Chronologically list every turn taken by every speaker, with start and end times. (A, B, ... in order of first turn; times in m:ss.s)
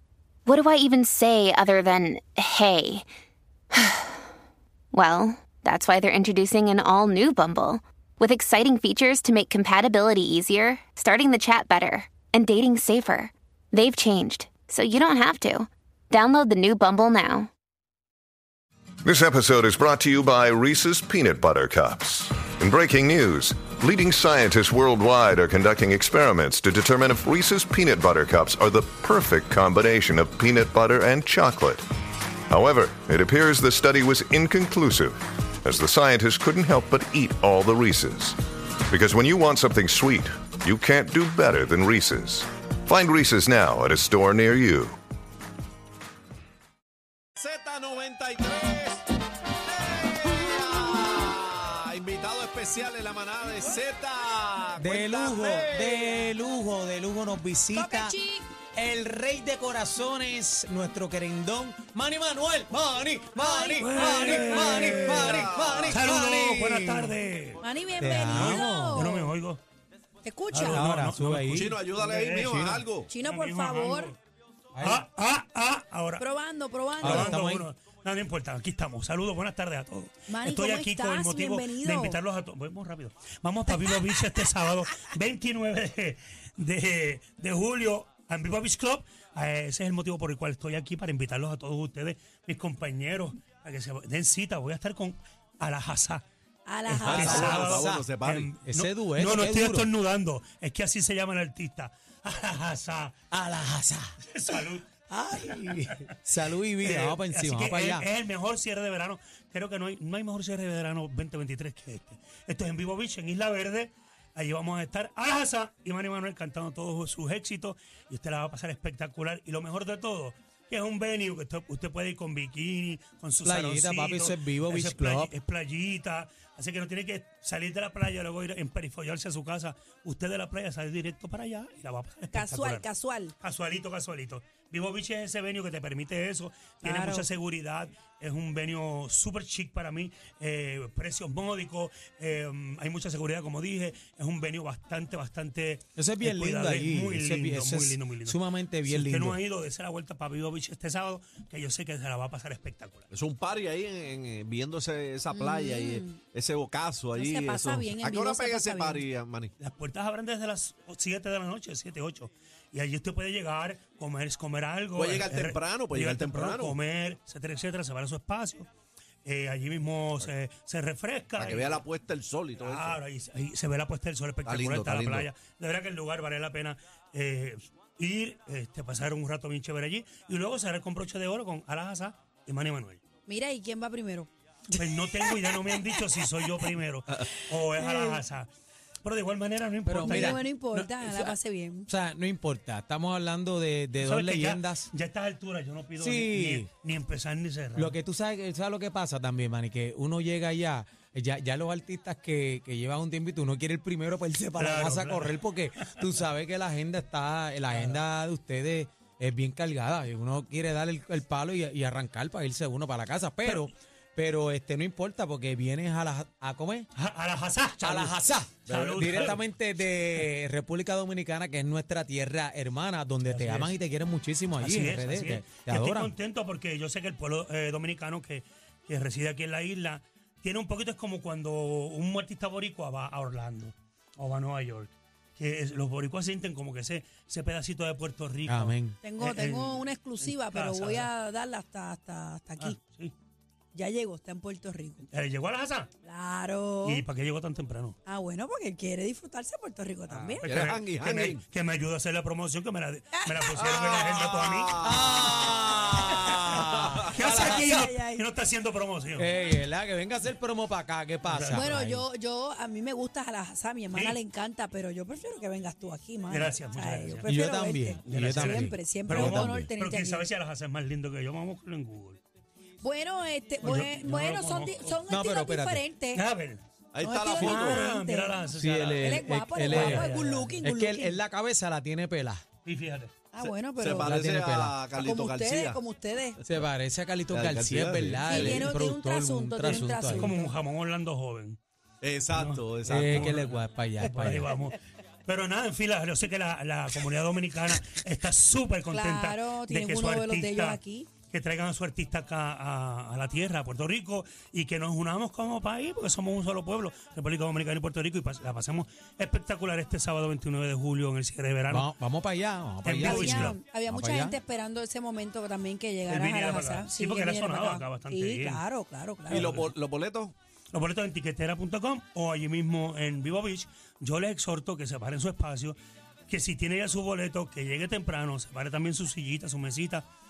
0:00.5-0:03.0 A
0:03.8-0:04.0 A
0:04.9-0:17.5 A
0:19.0-0:31.8 B
0:32.5-0:38.4 B
0:38.9-0:45.0 B
0:47.4-0:49.0 C
0:49.6-0:56.0 C
0:54.8-0:58.2 D
0:57.7-0:58.4 E
0:58.7-1:07.2 D
1:03.4-1:04.3 E
1:03.7-1:09.6 F
1:04.8-1:06.0 C
1:07.6-1:09.3 E
1:08.0-1:09.1 D
1:10.2-1:10.8 E
1:10.5-1:14.2 F
1:10.6-1:11.8 D
1:11.5-1:13.1 C
1:12.5-1:12.8 D
1:13.1-1:14.1 E
1:14.7-1:15.0 D
1:14.8-1:16.2 F
1:16.2-1:17.4 E
1:17.0-1:36.2 F
1:17.0-1:17.7 D
1:20.3-1:22.2 E
1:36.6-1:37.4 E
1:36.9-1:39.9 D
1:37.0-1:38.5 C
1:37.0-1:43.2 F
1:43.3-1:44.2 D
1:44.3-1:44.9 F
1:45.1-1:48.0 D
1:45.5-1:46.0 F
1:46.8-2:12.8 F
2:03.4-2:05.3 D
2:12.3-2:13.3 E
2:13.4-2:33.1 F
2:16.8-2:17.3 D
2:26.0-2:29.4 D
2:33.1-2:39.5 C
2:35.3-2:36.2 E
2:37.2-2:39.0 E
2:39.6-2:48.7 F
2:45.0-2:46.8 C
2:49.2-2:51.8 F
2:51.4-2:53.0 C
2:52.6-3:03.0 F
2:54.4-2:55.3 C
3:03.3-3:04.3 E
3:04.7-3:08.5 F
3:05.1-3:06.7 E
3:07.7-3:08.2 E
3:09.0-3:10.4 F
3:09.8-3:11.4 D
3:10.0-3:11.9 E
3:11.9-3:14.9 D
3:14.0-3:18.0 F
3:16.0-3:16.7 D
3:17.8-3:36.9 D
3:24.6-3:26.1 F
3:27.7-3:28.0 F
3:36.9-3:39.4 F
3:37.8-3:46.1 D
3:38.6-3:39.4 C
3:43.2-3:43.8 F
3:44.6-4:01.1 F
3:58.5-3:59.0 D
3:59.0-4:02.8 E
4:02.6-4:03.1 F
4:03.7-4:05.0 E
4:05.1-4:05.9 F
4:06.0-4:07.0 E
4:06.8-4:08.0 F
4:08.0-4:10.5 E
4:10.2-4:15.6 F
4:10.4-4:11.4 C
4:13.1-4:13.6 E
4:13.5-4:15.4 C
4:14.8-4:17.7 D
4:16.0-4:16.3 E
4:16.7-4:17.1 C
4:17.1-4:19.3 F
4:17.2-4:18.2 E
4:19.2-4:22.0 D
4:21.2-4:21.8 F
4:21.5-4:30.2 E
4:23.9-4:24.2 F
4:26.3-4:27.3 F
4:27.3-4:29.7 D
4:28.0-4:32.2 F
4:32.8-4:36.2 E
4:33.6-4:35.0 F
4:35.1-4:35.8 D
4:36.1-4:36.6 F
4:36.9-4:37.8 C
4:37.0-4:38.4 E
4:37.4-4:40.6 F
4:38.5-4:40.1 D
4:39.0-4:41.2 E
4:40.6-4:42.4 D
4:42.6-4:43.2 F
4:43.3-4:44.2 E
4:43.4-4:45.8 C
4:44.0-4:44.8 D
4:44.9-4:46.4 E
4:46.4-4:50.3 D
4:47.3-4:48.6 C
4:48.2-4:50.5 E
4:50.1-4:51.6 F
4:52.0-4:53.4 C
4:52.3-5:11.9 F
4:52.8-4:54.5 D
4:58.9-5:01.1 E
5:11.7-5:14.4 D
5:12.8-5:13.6 F
5:13.0-5:19.5 E
5:16.1-5:18.6 F
5:19.3-5:19.7 F
5:19.3-5:20.3 C
5:20.7-5:25.8 F
5:26.3-5:30.0 F